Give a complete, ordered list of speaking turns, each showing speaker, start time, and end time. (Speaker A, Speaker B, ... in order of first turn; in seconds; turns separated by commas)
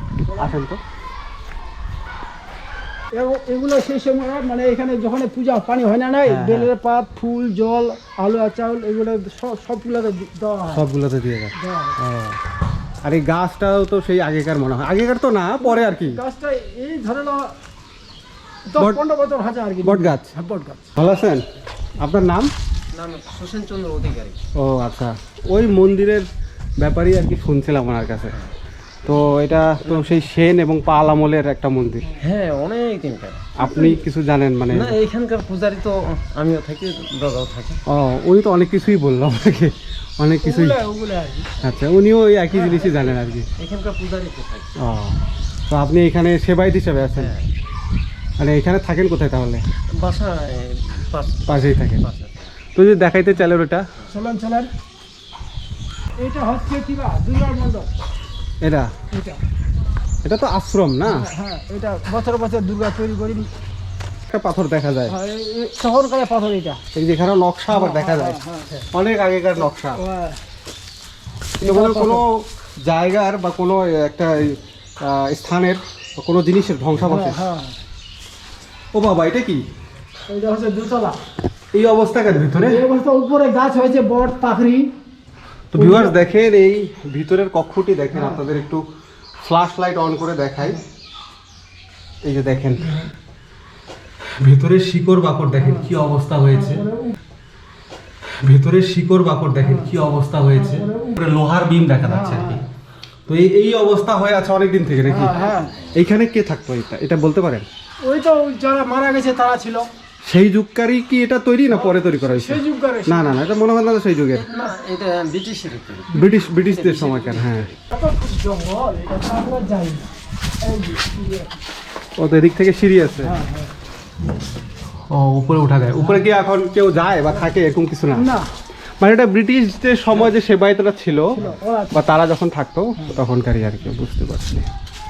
Speaker A: 0.4-0.8, Speaker B: 3.1-10.8, Speaker A: 6.3-6.7, Speaker A: 10.7-12.4, Speaker B: 11.6-12.0, Speaker A: 13.0-16.2, Speaker B: 15.6-17.5, Speaker B: 18.7-20.9, Speaker A: 19.8-20.3, Speaker A: 21.0-21.4, Speaker A: 22.0-22.5, Speaker C: 22.9-24.4, Speaker A: 24.6-26.3, Speaker A: 26.8-28.3, Speaker A: 29.1-32.1, Speaker C: 29.9-30.2, Speaker C: 32.2-33.5, Speaker A: 33.6-35.0, Speaker B: 33.6-34.0, Speaker C: 34.7-37.8, Speaker A: 37.9-40.8, Speaker B: 40.4-41.5, Speaker A: 41.6-43.5, Speaker C: 42.9-44.7, Speaker A: 44.8-45.2, Speaker A: 45.7-47.3, Speaker C: 47.2-47.5, Speaker A: 48.4-49.6, Speaker C: 50.0-52.3, Speaker A: 51.5-52.0, Speaker A: 52.8-53.8, Speaker B: 54.1-54.7, Speaker B: 56.2-57.9, Speaker A: 58.6-58.9, Speaker B: 59.1-59.4, Speaker A: 60.2-61.3, Speaker B: 61.0-63.5, Speaker A: 64.3-65.2, Speaker B: 65.1-66.8, Speaker A: 66.9-68.4, Speaker B: 67.7-68.8, Speaker A: 68.9-70.0, Speaker B: 70.0-70.4, Speaker A: 71.6-77.4, Speaker B: 71.6-72.2, Speaker B: 77.0-77.8, Speaker A: 78.9-79.6, Speaker B: 80.3-81.2, Speaker A: 81.7-82.8, Speaker B: 82.7-84.9, Speaker A: 85.7-88.8, Speaker B: 85.8-86.1, Speaker B: 88.1-88.4, Speaker A: 89.4-90.8, Speaker A: 92.2-93.0, Speaker A: 94.4-96.8, Speaker B: 95.6-95.9, Speaker B: 96.5-97.2, Speaker A: 98.4-102.6, Speaker B: 99.6-99.9, Speaker B: 100.5-101.2, Speaker B: 102.0-102.6, Speaker A: 103.3-107.7, Speaker B: 105.1-105.8, Speaker B: 108.0-109.9, Speaker A: 110.3-114.5, Speaker B: 111.7-113.4, Speaker C: 114.3-117.5, Speaker A: 116.1-117.7, Speaker B: 117.9-120.1, Speaker B: 120.6-121.6, Speaker A: 122.2-123.3, Speaker B: 123.2-123.7, Speaker A: 125.1-128.3, Speaker B: 128.2-128.5, Speaker A: 129.0-134.7, Speaker B: 131.3-132.0